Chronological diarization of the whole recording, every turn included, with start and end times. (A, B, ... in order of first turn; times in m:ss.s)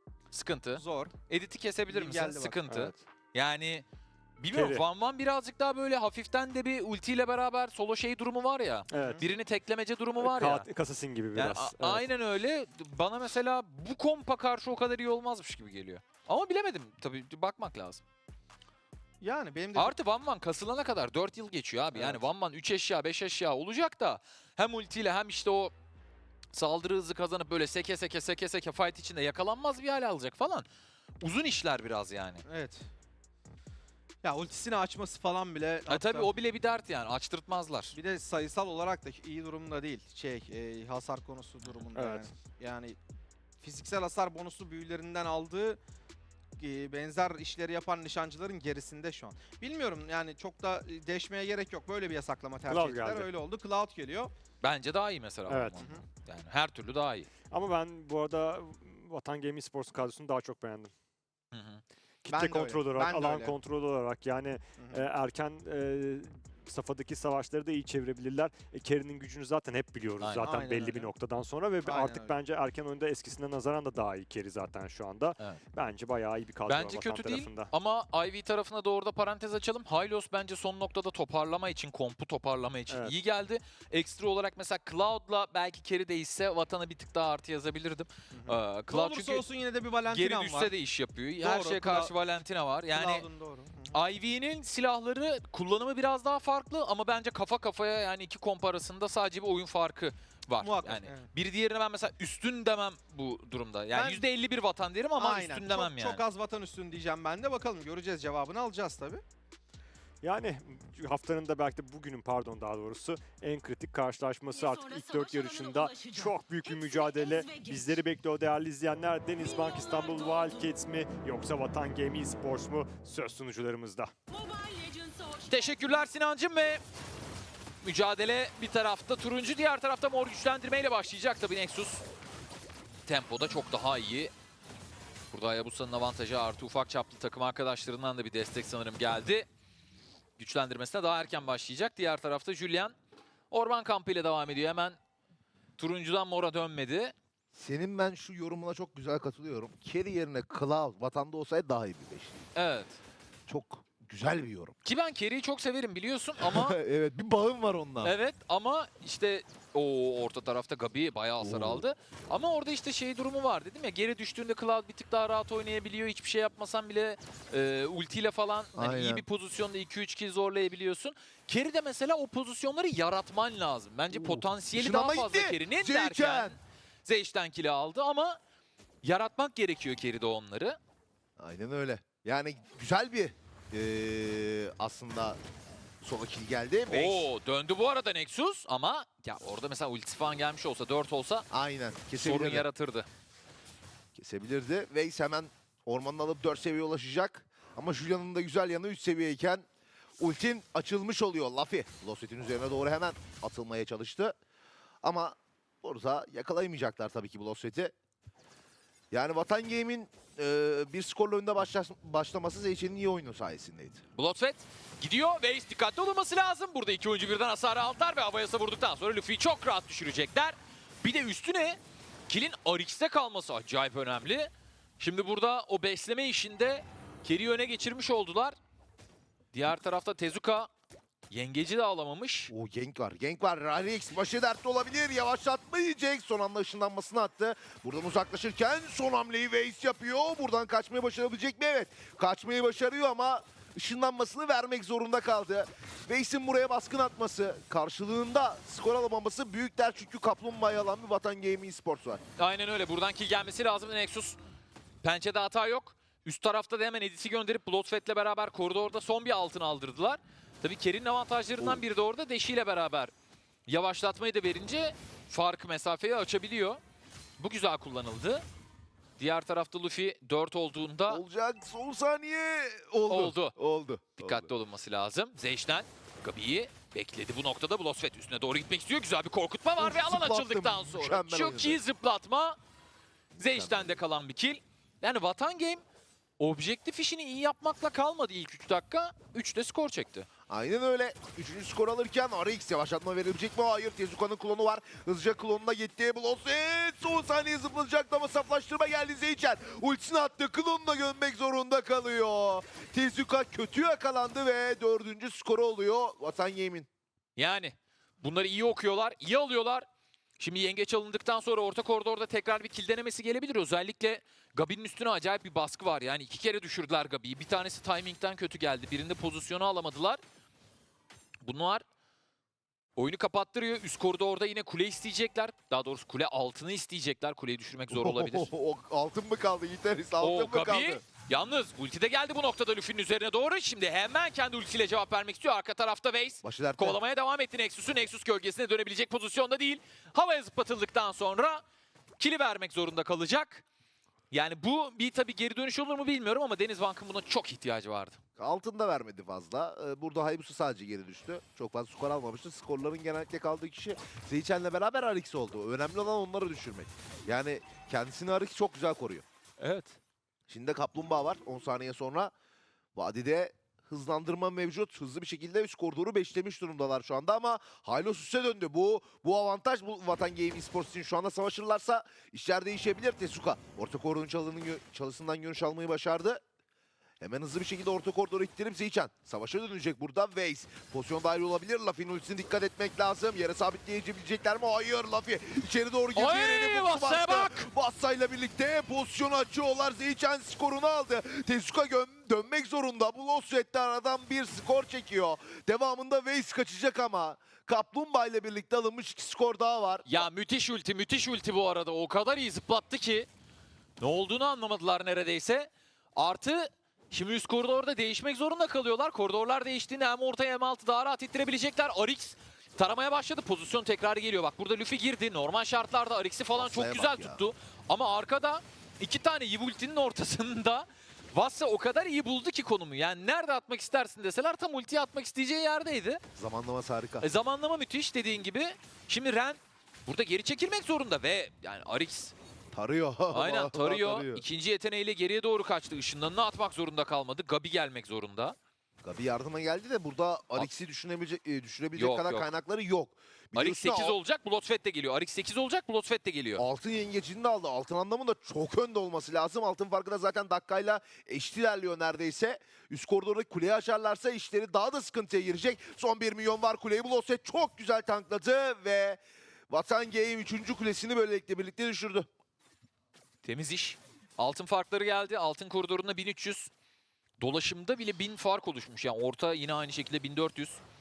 0:00.3-0:03.8 A
0:00.7-0:01.1 B
0:01.9-0:02.6 B
0:02.7-0:03.0 C
0:04.4-0:10.7 A
0:04.5-0:04.8 C
0:08.9-0:09.2 C
0:08.9-0:09.2 B
0:10.2-0:12.0 C
0:11.3-0:18.0 A
0:19.2-0:20.0 B
0:19.8-0:25.7 A
0:21.9-0:22.2 B
0:26.5-0:30.6 A
0:31.2-0:32.4 A
0:32.4-0:32.8 B
0:34.2-0:36.3 B
0:35.9-0:37.9 A
0:37.9-0:43.0 B
0:41.9-0:42.3 C
0:43.6-0:45.8 B
0:46.6-0:54.3 B
0:52.7-0:53.3 C
0:54.6-0:57.3 A
0:55.5-0:55.9 C
0:57.5-1:00.9 C
1:01.5-1:01.8 A
1:02.2-1:17.7 C
1:02.3-1:03.6 B
1:04.8-1:05.0 B
1:10.2-1:10.6 A
1:10.4-1:11.1 B
1:11.8-1:12.3 B
1:16.7-1:29.4 A
1:28.3-1:30.7 B
1:30.1-1:33.3 A
1:31.4-1:32.1 B
1:32.9-1:34.0 B
1:33.9-1:46.2 A
1:40.6-1:41.3 B
1:43.9-1:44.2 B
1:45.2-1:49.2 B
1:50.2-2:04.1 C
1:54.5-1:56.3 D
1:56.8-1:57.8 D
1:59.5-2:00.6 D
2:04.3-2:05.4 D
2:05.4-2:06.8 A
2:07.8-2:12.0 A
2:13.0-2:14.3 A
2:15.3-2:19.5 A
2:20.4-2:22.9 A
2:23.5-2:25.0 A
2:25.8-2:27.1 A
2:27.5-2:32.4 E
2:32.5-2:33.0 A
2:33.5-2:34.7 E
2:34.8-2:36.8 A
2:36.4-2:38.1 E
2:38.0-2:58.4 A
2:41.4-2:41.8 E
2:48.7-2:49.2 E
2:54.1-2:56.6 E
2:59.0-3:00.8 A
3:01.4-3:05.4 E
3:06.0-3:07.3 E
3:06.9-3:11.4 A
3:11.5-3:12.7 E
3:12.1-3:13.1 A
3:14.1-3:19.6 E
3:20.2-3:24.3 E
3:25.0-3:27.9 E
3:29.1-3:34.0 E
3:34.2-3:41.8 A
3:42.3-3:48.6 A
3:49.5-3:50.7 A
3:51.3-3:52.5 A
3:52.5-4:12.2 E
4:12.4-4:14.4 A
4:15.0-4:23.1 A
4:23.7-4:26.8 A
4:27.4-4:28.4 A
4:29.2-4:31.2 A
4:31.1-4:34.5 E
4:33.1-4:33.5 A
4:34.2-4:42.6 A
4:39.8-4:41.8 E
4:43.4-4:45.8 A
4:43.4-4:44.0 E
4:46.4-4:50.3 A
4:50.5-5:06.9 E
5:07.4-5:09.8 A
5:10.4-5:20.2 A
5:21.4-5:21.8 A
5:23.0-5:28.5 A
5:27.9-5:31.0 E
5:30.2-5:41.6 A
5:36.4-5:37.0 E
5:42.2-5:43.6 A
5:44.3-5:48.2 A
5:48.4-5:59.2 E
5:59.6-6:00.0 A
6:00.5-6:02.3 E
6:02.9-6:16.4 E
6:17.2-6:40.3 E
6:26.1-6:27.7 A
6:40.0-6:43.3 A
6:44.0-7:06.2 A
6:56.5-6:57.4 E
7:06.4-7:07.3 E
7:07.2-7:12.3 A
7:12.7-7:14.4 E
7:13.3-7:18.6 A
7:19.0-7:24.2 E
7:21.9-7:22.5 A
7:23.5-7:26.6 A
7:26.6-7:42.3 E
7:43.4-7:46.7 A
7:47.4-7:50.8 A